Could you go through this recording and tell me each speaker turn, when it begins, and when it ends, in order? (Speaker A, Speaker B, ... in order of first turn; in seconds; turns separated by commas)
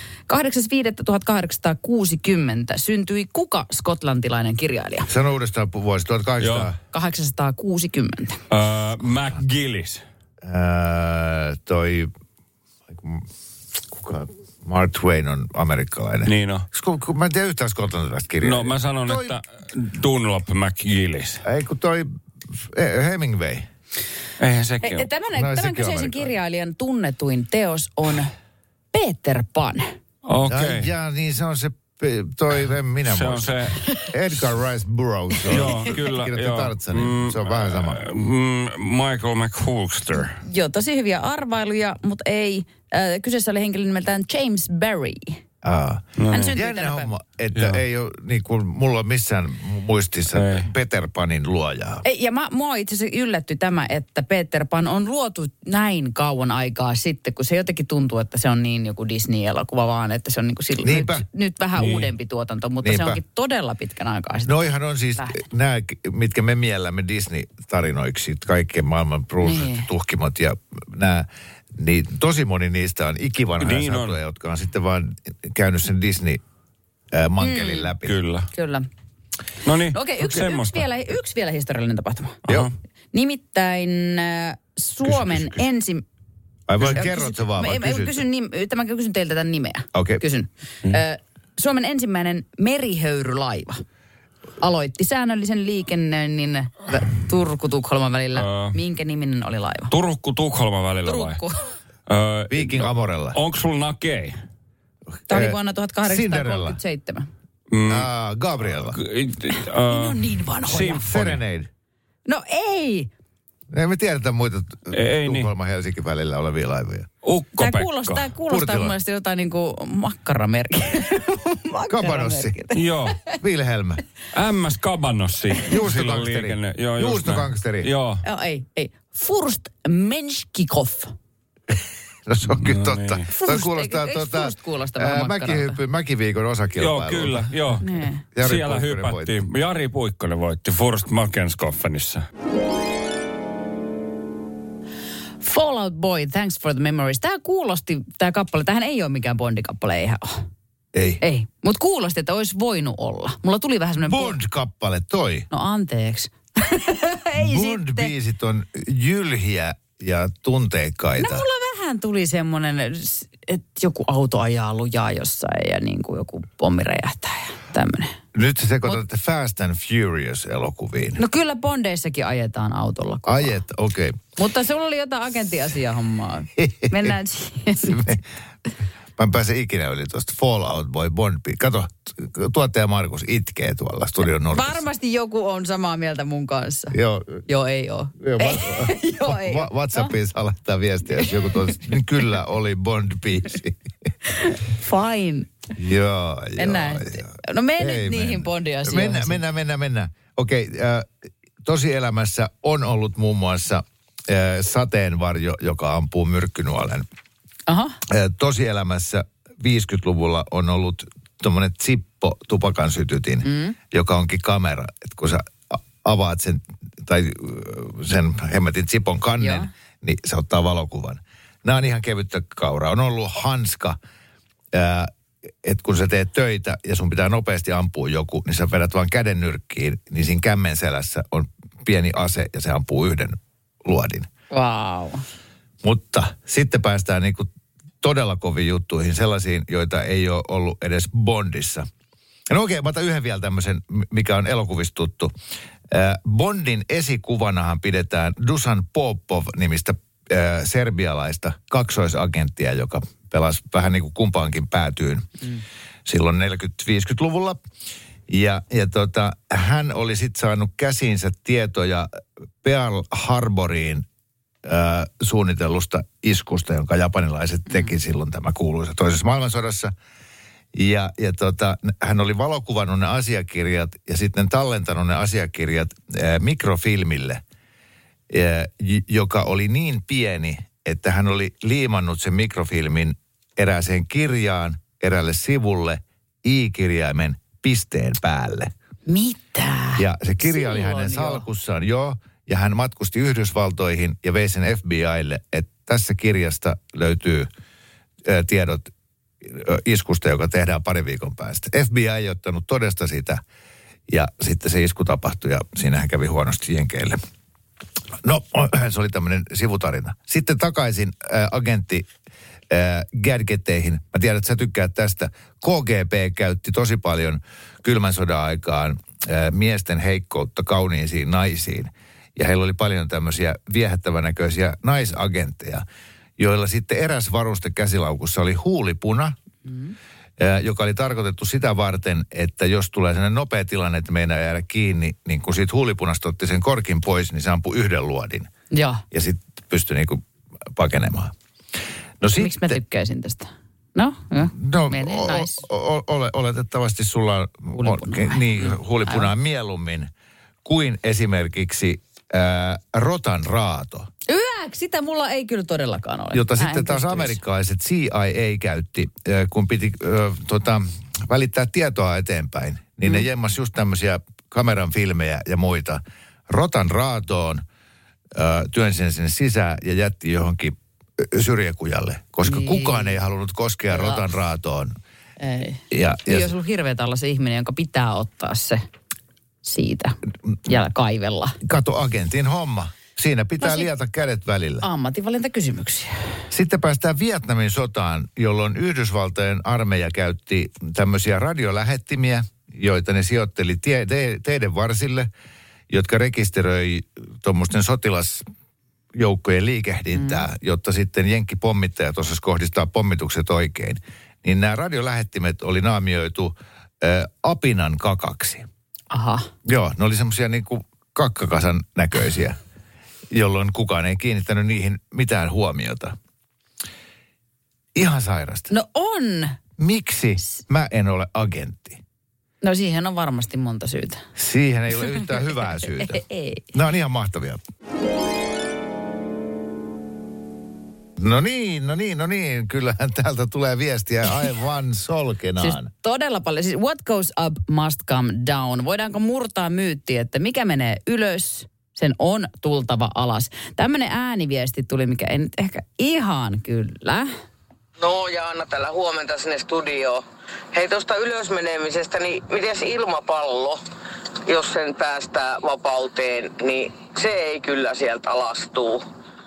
Speaker A: 0.3-5.1, Speaker B: 5.1-6.8, Speaker C: 6.4-6.7, Speaker A: 6.9-8.4, Speaker C: 8.5-10.0, Speaker B: 10.4-12.1, Speaker B: 12.9-13.3, Speaker B: 13.9-19.4, Speaker C: 16.2-16.6, Speaker C: 18.4-21.4, Speaker B: 21.4-23.6, Speaker C: 24.4-25.1, Speaker A: 24.8-28.3, Speaker B: 25.3-26.3, Speaker A: 28.9-29.9, Speaker C: 30.2-30.9, Speaker B: 30.4-38.0, Speaker C: 33.1-33.8, Speaker A: 33.8-34.1, Speaker C: 35.5-40.4, Speaker A: 40.4-45.4, Speaker B: 45.6-52.0, Speaker C: 46.2-46.6, Speaker A: 46.3-47.1, Speaker C: 47.5-47.8, Speaker C: 50.3-50.7, Speaker A: 52.0-64.5, Speaker B: 60.8-61.2, Speaker C: 61.8-62.1, Speaker B: 62.8-63.2, Speaker B: 64.5-76.4, Speaker A: 65.2-65.4, Speaker A: 69.4-69.9, Speaker C: 73.6-74.2, Speaker B: 77.1-78.2, Speaker A: 77.4-77.9, Speaker C: 78.0-78.5, Speaker A: 78.5-78.9, Speaker C: 79.6-80.8, Speaker A: 79.9-82.5, Speaker C: 82.5-82.7, Speaker A: 83.1-86.0, Speaker B: 85.0-85.6, Speaker B: 86.7-88.2, Speaker A: 86.8-93.8, Speaker B: 89.9-90.2, Speaker A: 94.6-99.9, Speaker C: 98.3-98.8, Speaker C: 99.9-101.4, Speaker A: 101.0-101.7, Speaker C: 102.1-104.3, Speaker B: 102.5-103.4, Speaker B: 105.2-106.8, Speaker A: 105.3-107.3, Speaker C: 107.7-108.1, Speaker B: 107.9-109.0, Speaker C: 108.8-111.4, Speaker A: 109.8-111.0, Speaker B: 111.0-111.7, Speaker A: 112.2-113.1, Speaker B: 113.7-117.1, Speaker C: 114.9-115.5, Speaker C: 117.2-118.3, Speaker A: 117.6-123.3, Speaker B: 118.5-118.9, Speaker B: 121.9-122.6, Speaker C: 122.7-123.2, Speaker B: 123.3-124.0, Speaker C: 124.3-128.2, Speaker B: 125.6-127.9, Speaker A: 128.2-131.1, Speaker B: 132.2-137.5, Speaker C: 132.5-133.2, Speaker A: 133.3-135.8, Speaker C: 136.8-137.9, Speaker A: 137.8-138.2, Speaker B: 138.3-139.4, Speaker C: 138.4-142.2, Speaker A: 145.4-150.4, Speaker B: 150.9-151.2, Speaker A: 151.2-154.4, Speaker B: 154.1-155.5, Speaker A: 155.5-158.1, Speaker B: 157.4-161.4, Speaker A: 161.2-168.2, Speaker B: 168.3-171.2, Speaker A: 171.2-173.6, Speaker B: 173.2-174.2, Speaker A: 174.3-178.1, Speaker B: 176.6-177.1, Speaker B: 177.8-178.2, Speaker B: 179.2-184.8, Speaker A: 184.4-190.1, Speaker B: 186.9-187.4, Speaker B: 188.2-193.8, Speaker A: 191.2-191.7, Speaker A: 194.3-195.5, Speaker B: 195.8-201.1, Speaker A: 196.6-199.4, Speaker B: 201.6-207.0, Speaker A: 207.7-208.0, Speaker B: 208.1-224.0, Speaker A: 213.4-213.8, Speaker A: 219.4-219.7, Speaker B: 224.7-225.1, Speaker B: 225.6-234.3, Speaker A: 234.5-235.2, Speaker B: 235.8-237.5, Speaker B: 238.0-241.9, Speaker B: 242.5-245.3, Speaker B: 245.9-255.4, Speaker B: 256.1-257.6, Speaker B: 258.3-264.1, Speaker B: 264.6-269.9, Speaker B: 270.7-277.4, Speaker B: 278.3-288.7, Speaker A: 289.1-291.4, Speaker B: 290.0-297.5, Speaker B: 298.2-303.4, Speaker B: 304.1-307.2, Speaker B: 308.2-312.1, Speaker B: 312.7-325.8, Speaker B: 326.4-329.4, Speaker A: 329.6-329.9, Speaker B: 330.4-338.5, Speaker A: 338.7-339.0, Speaker B: 339.1-341.3, Speaker B: 342.2-342.8, Speaker A: 342.4-345.6, Speaker B: 344.5-350.1, Speaker A: 347.7-349.3, Speaker B: 350.6-354.1, Speaker A: 354.3-357.4, Speaker B: 356.3-367.6, Speaker B: 368.3-374.9, Speaker A: 372.4-373.2, Speaker A: 373.9-374.2, Speaker A: 375.4-378.8, Speaker B: 375.9-376.5, Speaker A: 379.6-381.6, Speaker B: 381.6-384.8, Speaker A: 383.6-383.9, Speaker A: 384.8-386.4, Speaker B: 386.5-395.3, Speaker B: 395.9-398.4, Speaker B: 399.1-408.6, Speaker A: 400.1-400.4, Speaker A: 409.1-409.5, Speaker B: 409.6-412.6, Speaker B: 413.3-416.1, Speaker B: 417.9-418.7, Speaker A: 418.7-419.6, Speaker B: 419.8-422.0, Speaker A: 422.6-424.2, Speaker B: 424.4-427.6, Speaker A: 425.9-426.6, Speaker B: 431.2-435.9, Speaker A: 435.6-447.3, Speaker D: 448.0-453.8, Speaker D: 454.4-459.0